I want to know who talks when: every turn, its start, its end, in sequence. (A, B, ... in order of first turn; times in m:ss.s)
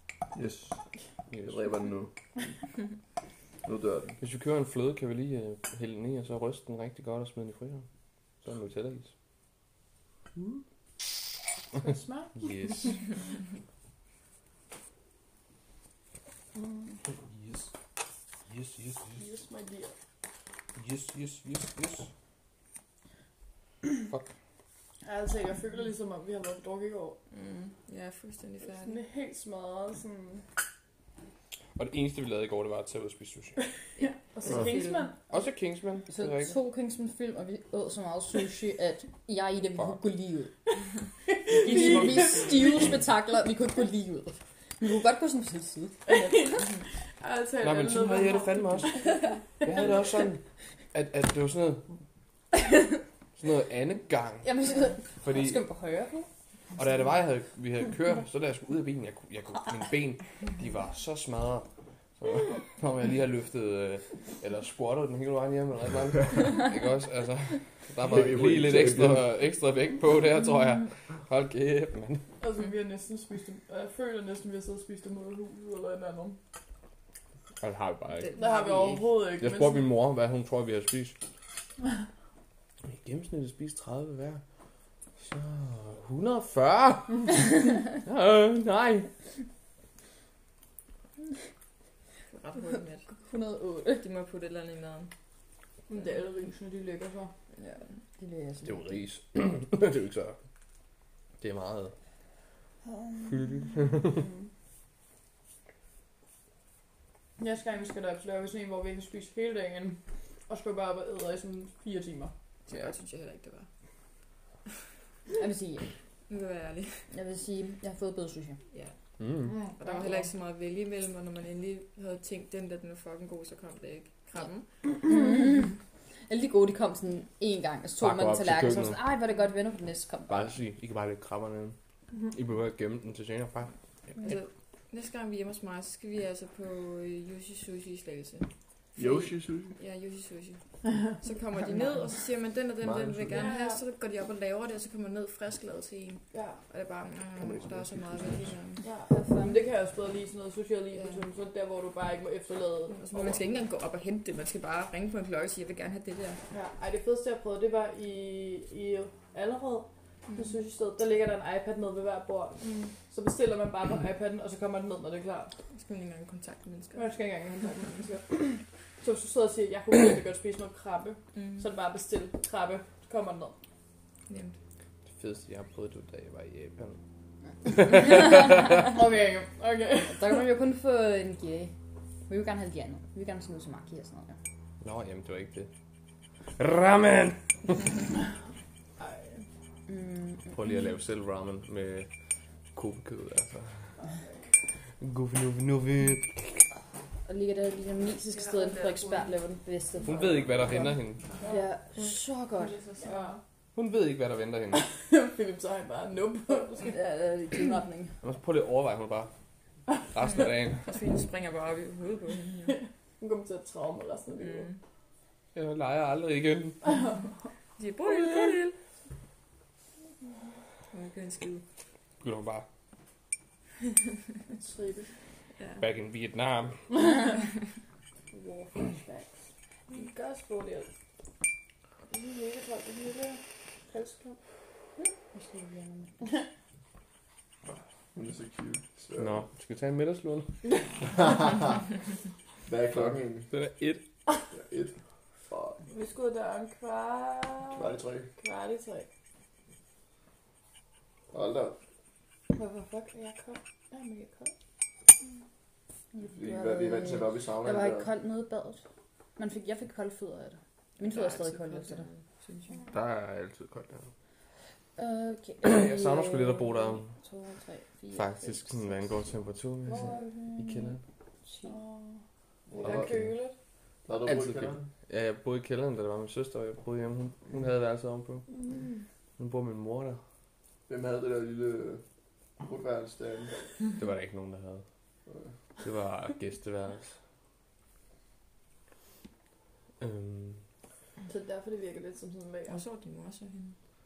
0:00.3-0:00.8 A
0:01.3-0:01.6 B
0:01.4-0:02.1 A
0:03.6-0:04.2 A
0:04.2-0:07.8 B
0:08.4-0:09.1 B
0:11.7-0:12.9 C
0:12.4-0:13.0 B
0:16.5-0:17.0 C
0:17.3-0:17.7 B
0:18.5-0:19.2 B
0:19.2-0:19.9 C
0:20.8-0:22.1 B
0:24.1-0:24.3 B
0:25.0-0:27.2 C
0:27.3-0:29.0 D
0:28.6-0:30.4 C
0:31.8-0:33.6 B
0:34.0-0:35.3 C
0:34.0-0:35.1 D
0:35.3-0:36.5 B
0:36.1-0:40.5 E
0:41.3-0:42.9 C
0:41.6-0:46.2 E
0:41.7-0:42.4 B
0:46.0-0:50.0 C
0:47.6-0:49.0 B
0:49.6-0:50.4 B
0:50.9-0:51.8 B
0:53.4-0:54.5 B
0:54.4-0:56.3 E
0:55.2-0:55.7 B
0:56.8-1:01.7 B
1:02.2-1:12.2 B
1:08.0-1:09.3 A
1:12.4-1:16.4 C
1:17.6-1:18.3 B
1:18.2-1:19.1 D
1:18.3-1:19.9 C
1:19.4-1:21.2 B
1:22.9-1:24.4 B
1:25.2-1:29.1 B
1:32.3-1:33.1 D
1:33.1-1:34.0 E
1:33.9-1:35.1 D
1:35.9-1:37.3 C
1:38.2-1:39.0 E
1:38.6-1:40.4 B
1:41.4-1:41.9 B
1:42.9-1:43.6 E
1:43.3-1:44.1 B
1:44.1-1:44.5 C
1:47.4-1:52.3 C
1:52.7-1:53.7 D
1:55.4-1:55.8 E
1:56.3-1:57.0 D
1:57.1-1:58.6 E
1:59.2-1:59.6 B
1:59.4-2:00.3 C
1:59.7-2:04.6 D
2:05.0-2:05.8 E
2:06.3-2:10.5 E
2:08.0-2:09.0 B
2:10.3-2:11.8 B
2:12.3-2:13.7 B
2:14.2-2:28.8 D
2:19.0-2:19.8 A
2:22.8-2:23.5 A
2:23.3-2:23.8 C
2:26.3-2:26.6 C
2:27.4-2:28.6 A
2:28.8-2:33.4 C
2:29.1-2:29.6 E
2:30.9-2:31.2 D
2:32.9-2:36.4 D
2:36.5-2:45.5 C
2:40.3-2:40.6 D
2:45.7-2:47.2 D
2:46.9-2:53.6 C
2:51.3-2:51.7 D
2:54.3-2:54.6 D
2:55.1-2:57.0 B
2:57.7-2:58.3 B
2:58.7-3:00.4 C
3:00.1-3:01.7 E
3:02.3-3:04.4 E
3:04.8-3:05.7 B
3:06.6-3:07.9 B
3:09.0-3:09.4 C
3:09.9-3:10.6 E
3:10.5-3:12.1 B
3:12.7-3:13.9 B
3:14.0-3:14.5 C
3:15.0-3:16.6 B
3:17.2-3:20.9 E
3:20.0-3:21.2 B
3:21.3-3:21.7 C
3:21.5-3:23.2 E
3:22.6-3:23.4 C
3:23.7-3:24.8 B
3:24.7-3:27.0 C
3:26.8-3:28.1 E
3:28.2-3:29.3 B
3:30.1-3:30.9 B
3:30.8-3:32.8 D
3:32.7-3:34.7 C
3:34.4-3:34.8 D
3:35.5-3:36.8 B
3:36.9-3:37.2 C
3:37.8-3:38.8 D
3:38.1-3:38.5 C
3:40.9-3:41.6 D
3:42.2-3:42.6 B
3:44.5-3:45.1 C
3:45.6-3:45.8 D
3:45.8-3:46.8 B
3:48.3-3:50.9 C
3:52.1-3:54.4 C
3:55.0-3:56.2 E
3:58.1-3:59.4 A
3:59.2-4:00.5 B
4:01.0-4:01.8 A
4:02.6-4:03.5 A
4:02.9-4:04.0 B
4:04.5-4:04.9 A
4:05.5-4:05.8 A
4:05.9-4:09.1 C
4:07.7-4:08.3 A
4:11.3-4:11.8 A
4:12.5-4:14.5 C
4:16.1-4:18.8 E
4:16.3-4:18.1 A
4:19.4-4:22.1 E
4:21.0-4:22.8 D
4:22.9-4:24.1 B
4:25.0-4:29.0 E
4:25.6-4:27.1 B
4:28.1-4:31.0 B
4:29.9-4:30.3 C
4:29.9-4:30.9 E
4:31.4-4:31.8 E
4:31.6-4:32.2 C
4:32.7-4:33.3 A
4:32.8-4:33.6 C
4:32.8-4:33.3 B
4:34.0-4:34.8 A
4:34.2-4:38.4 B
4:38.5-4:39.0 C
4:39.4-4:40.2 B
4:40.9-4:42.0 A
4:42.6-4:43.5 A
4:44.0-4:44.8 B
4:45.8-4:47.2 B
4:50.0-4:50.6 B
4:51.3-4:52.8 C
4:52.7-4:53.7 D